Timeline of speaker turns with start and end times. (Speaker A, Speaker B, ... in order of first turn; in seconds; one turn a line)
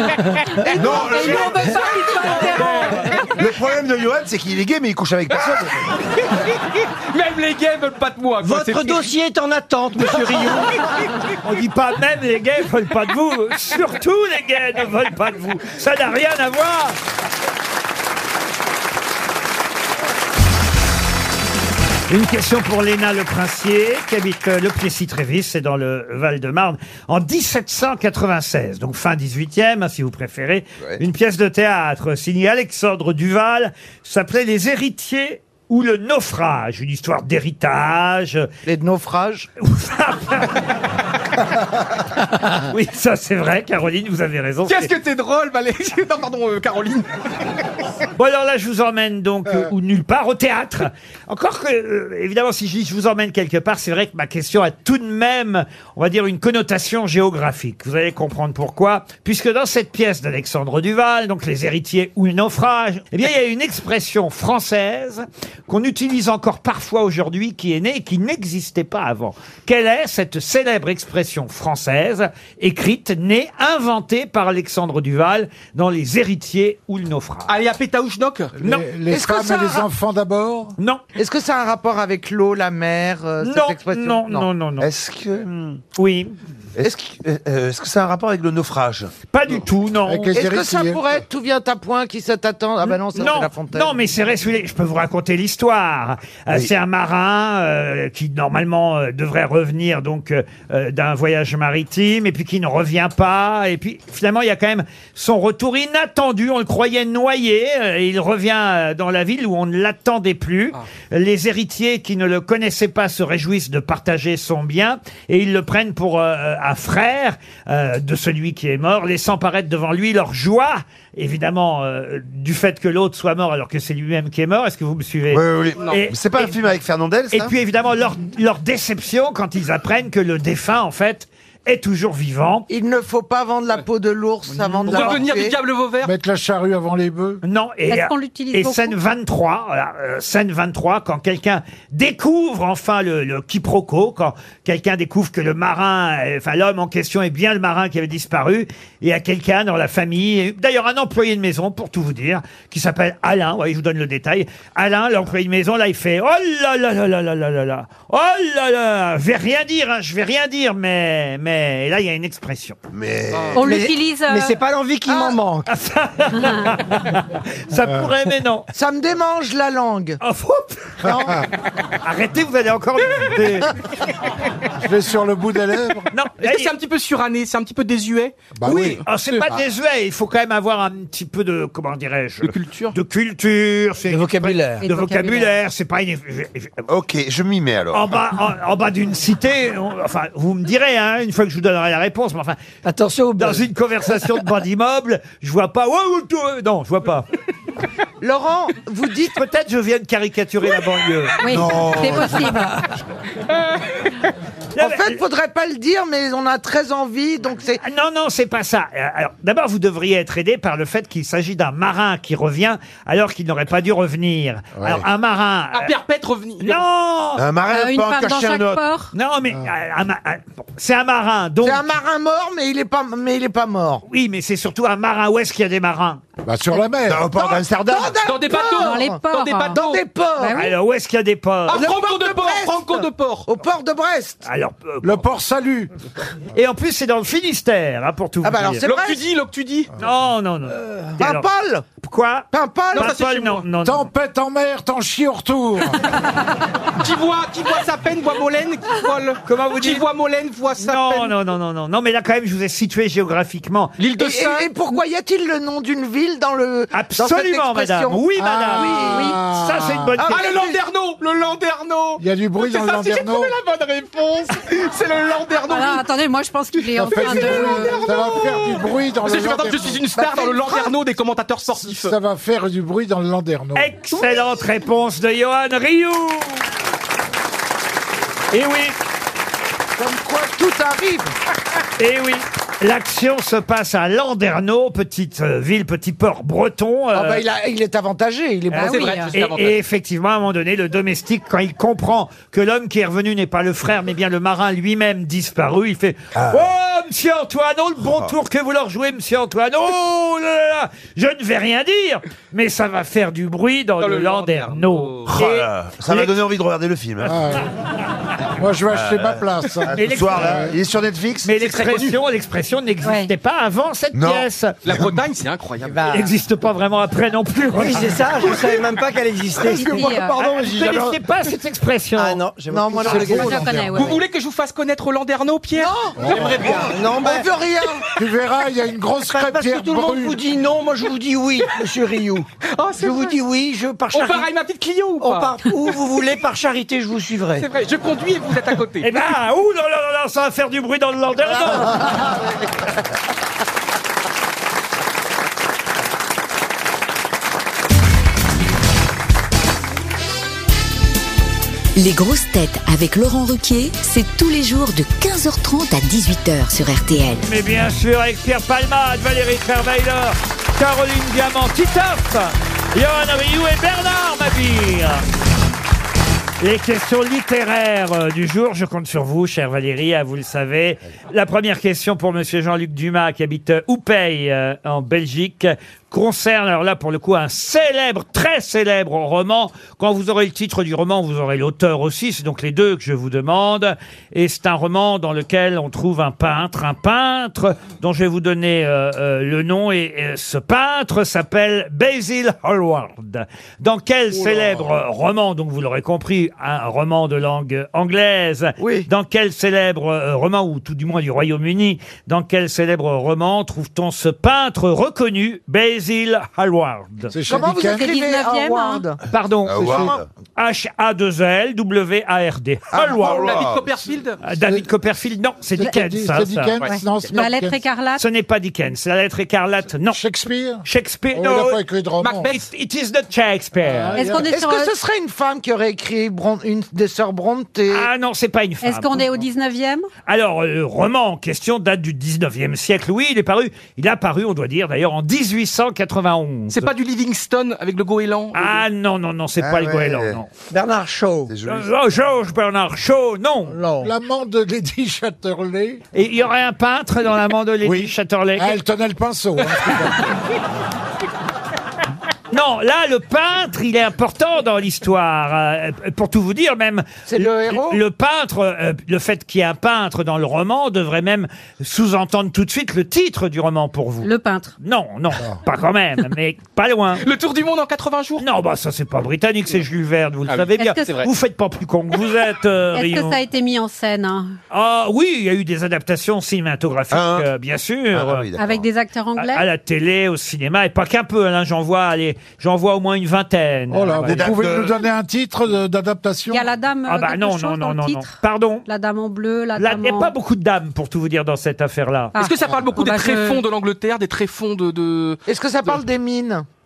Speaker A: 0.7-3.3
Speaker B: 0.7-1.9
Speaker C: 1.1-3.3
Speaker B: 3.3-5.8
Speaker C: 7.1-9.1
Speaker D: 8.4-10.7
Speaker E: 11.4-17.0
Speaker E: 22.1-38.5
Speaker F: 38.6-39.5
Speaker E: 39.6-40.6
Speaker E: 42.6-44.9
Speaker C: 44.6-47.1
Speaker E: 48.2-77.5
Speaker C: 77.5-78.5
Speaker G: 78.6-80.8
Speaker F: 79.1-79.9
Speaker F: 81.2-84.5
Speaker E: 83.4-84.9
Speaker B: 84.8-85.8
Speaker E: 86.0-86.3
Speaker B: 86.8-89.1
Speaker E: 89.3-90.4
Speaker G: 90.0-91.1
Speaker F: 90.3-94.0
Speaker E: 93.1-126.5
Speaker B: 125.3-127.5
Speaker E: 127.3-132.7
Speaker F: 132.7-135.6
Speaker E: 134.8-135.2
Speaker C: 134.8-136.1
Speaker G: 136.0-137.4
Speaker E: 137.4-162.8
Speaker A: 137.9-139.0
Speaker B: 162.9-163.7
Speaker A: 163.5-164.6
Speaker D: 163.6-165.7
Speaker F: 165.1-165.4
Speaker E: 165.7-168.7
Speaker F: 168.7-170.2
Speaker E: 170.2-171.1
Speaker F: 171.0-171.4
Speaker E: 172.0-173.7
Speaker G: 174.8-176.1
Speaker E: 176.1-176.7
Speaker C: 176.4-178.4
Speaker G: 178.6-179.0
Speaker E: 178.7-186.8
Speaker C: 182.4-183.0
Speaker D: 184.1-184.8
Speaker A: 184.8-185.5
Speaker B: 186.9-188.2
Speaker E: 187.9-192.6
Speaker D: 192.8-193.7
Speaker E: 193.4-197.3
Speaker F: 198.2-199.3
Speaker E: 199.3-201.8
Speaker A: 201.4-202.8
Speaker B: 201.4-202.6
Speaker E: 204.8-205.2
Speaker F: 204.8-207.8
Speaker E: 207.8-215.9
Speaker G: 214.8-215.0
Speaker C: 215.7-216.8
Speaker E: 216.6-217.4
Speaker B: 217.4-218.8
Speaker A: 217.7-219.1
Speaker E: 219.1-221.8
Speaker F: 221.6-224.0
Speaker E: 224.1-226.2
Speaker G: 226.4-227.3
Speaker B: 227.0-228.2
Speaker F: 227.3-229.2
Speaker C: 228.2-230.0
Speaker A: 228.5-229.8
Speaker F: 229.7-230.6
Speaker A: 230.4-230.8
Speaker E: 230.5-231.8
Speaker C: 231.7-233.5
Speaker F: 231.7-234.4
Speaker E: 234.4-235.2
Speaker G: 235.0-235.9
Speaker E: 236.5-238.9
Speaker F: 238.4-239.2
Speaker C: 238.8-239.9
Speaker E: 240.0-241.5
Speaker F: 241.2-241.8
Speaker E: 242.0-244.1
Speaker F: 242.5-243.2
Speaker C: 242.9-243.6
Speaker G: 243.8-246.2
Speaker C: 246.9-251.3
Speaker E: 249.5-250.1
Speaker E: 250.8-254.0
Speaker C: 254.0-254.7
Speaker F: 254.2-259.4
Speaker E: 256.9-260.4
Speaker G: 258.4-260.2
Speaker F: 260.2-260.8
Speaker C: 260.3-266.1
Speaker G: 262.2-263.5
Speaker A: 265.7-268.1
Speaker C: 266.8-272.1
Speaker G: 267.0-270.1
Speaker F: 270.2-270.9
Speaker G: 271.8-273.9
Speaker E: 273.8-276.6
Speaker E: 278.5-279.0
Speaker F: 280.0-281.3
Speaker E: 282.0-287.4
Speaker F: 287.1-289.2
Speaker E: 288.7-306.3
Speaker A: 288.8-289.3
Speaker C: 288.8-289.8
Speaker B: 296.3-296.7
Speaker C: 304.0-305.3
Speaker B: 305.3-307.4
Speaker G: 307.2-307.6
Speaker G: 308.6-310.8
Speaker B: 308.9-309.4
Speaker E: 309.9-310.6
Speaker B: 309.9-311.5
Speaker E: 311.4-314.8
Speaker C: 311.6-312.2
Speaker A: 313.0-313.3
Speaker B: 314.1-314.5
Speaker C: 314.8-316.1
Speaker D: 315.8-316.3
Speaker E: 316.1-318.8
Speaker D: 317.7-320.2
Speaker E: 319.6-322.4
Speaker B: 319.6-321.2
Speaker A: 319.9-320.4
Speaker D: 322.2-323.6
Speaker F: 322.7-323.6
Speaker G: 323.0-324.2
Speaker A: 323.3-324.2
Speaker C: 323.9-327.0
Speaker F: 325.8-328.1
Speaker G: 326.2-326.6
Speaker D: 326.5-327.5
Speaker G: 328.1-330.4
Speaker D: 329.3-334.5
Speaker C: 332.7-333.4
Speaker C: 334.1-335.5
Speaker D: 335.2-337.7
Speaker C: 337.6-339.1
Speaker E: 339.0-342.1
Speaker F: 342.1-342.3
Speaker H: 352.0-357.4
Speaker E: 357.4-365.2
Speaker E: 366.6-407.3
Speaker F: 398.8-399.1
Speaker G: 407.3-408.1
Speaker F: 407.5-409.2
Speaker A: 407.8-409.0
Speaker E: 409.3-413.6
Speaker B: 409.7-410.3
Speaker G: 409.8-410.1
Speaker B: 412.9-413.9
Speaker C: 413.1-414.4
Speaker E: 414.4-416.8
Speaker G: 415.8-417.8
Speaker C: 416.8-417.3
Speaker A: 416.9-418.2
Speaker E: 418.2-420.2
Speaker G: 420.1-422.5
Speaker E: 420.8-421.8
Speaker C: 422.2-422.7
Speaker E: 422.5-424.2
Speaker G: 423.8-424.5
Speaker A: 424.1-424.9
Speaker F: 424.5-428.1
Speaker E: 427.9-429.4
Speaker A: 428.8-430.1
Speaker E: 430.2-436.9
Speaker C: 436.7-438.8
Speaker E: 438.5-440.5
Speaker B: 439.6-440.4
Speaker D: 440.7-441.5
Speaker B: 441.5-441.9
Speaker E: 441.6-443.8
Speaker D: 443.7-444.1
Speaker G: 444.0-446.0
Speaker E: 446.1-448.8
Speaker G: 447.8-450.4
Speaker E: 452.5-464.3
Speaker F: 457.3-458.0
Speaker A: 464.2-464.7
Speaker E: 464.8-467.2
Speaker C: 467.2-468.4
Speaker E: 468.4-473.4
Speaker C: 470.5-471.3
Speaker A: 470.8-471.1
Speaker A: 472.9-474.6
Speaker E: 474.7-478.5
Speaker B: 477.1-477.5
Speaker B: 478.1-478.9
Speaker A: 478.6-479.7
Speaker E: 479.4-484.5
Speaker G: 483.9-486.7
Speaker B: 484.2-485.0
Speaker A: 486.5-490.3
Speaker E: 487.1-488.9
Speaker E: 489.8-492.4
Speaker A: 492.3-493.6
Speaker C: 492.4-496.0
Speaker F: 495.5-496.7